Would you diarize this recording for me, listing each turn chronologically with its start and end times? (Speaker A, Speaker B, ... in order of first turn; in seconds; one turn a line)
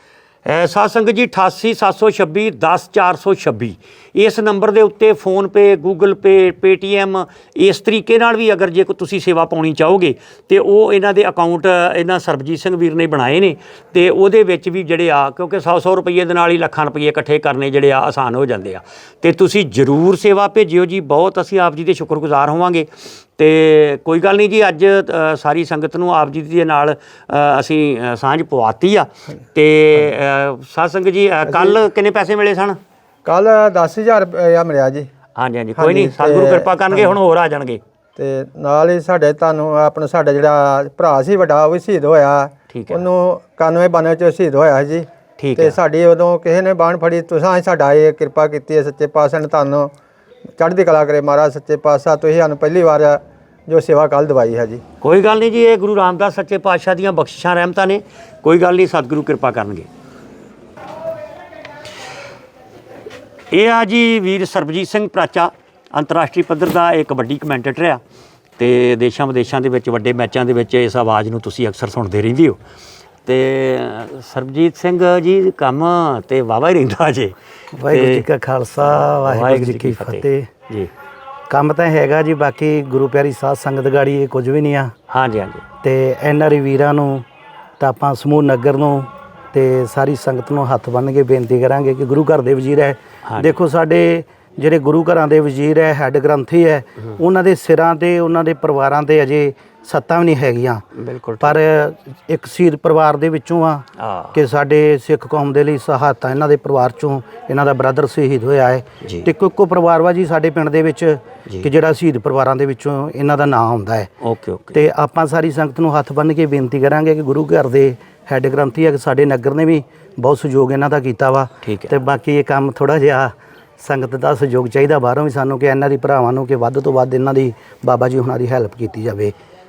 Speaker A: 0.5-32.8
Speaker B: 31.4-31.8
Speaker B: 33.2-35.1
Speaker A: 35.4-37.8
Speaker B: 35.8-37.1
Speaker B: 38.1-49.9
Speaker A: 42.7-43.0
Speaker A: 45.4-45.8
Speaker B: 50.6-54.8
Speaker A: 55.0-59.9
Speaker A: 63.5-68.0
Speaker A: 68.6-72.6
Speaker A: 73.2-77.3
Speaker C: 77.7-80.5
Speaker A: 77.8-78.2
Speaker A: 78.8-80.9
Speaker C: 81.5-84.9
Speaker A: 85.1-85.6
Speaker C: 85.8-87.2
Speaker C: 87.8-100.8
Speaker A: 93.2-93.5
Speaker A: 101.0-101.6
Speaker C: 101.4-114.1
Speaker A: 104.0-104.4
Speaker A: 109.0-109.3
Speaker A: 114.2-114.8
Speaker C: 114.7-129.3
Speaker A: 121.6-121.9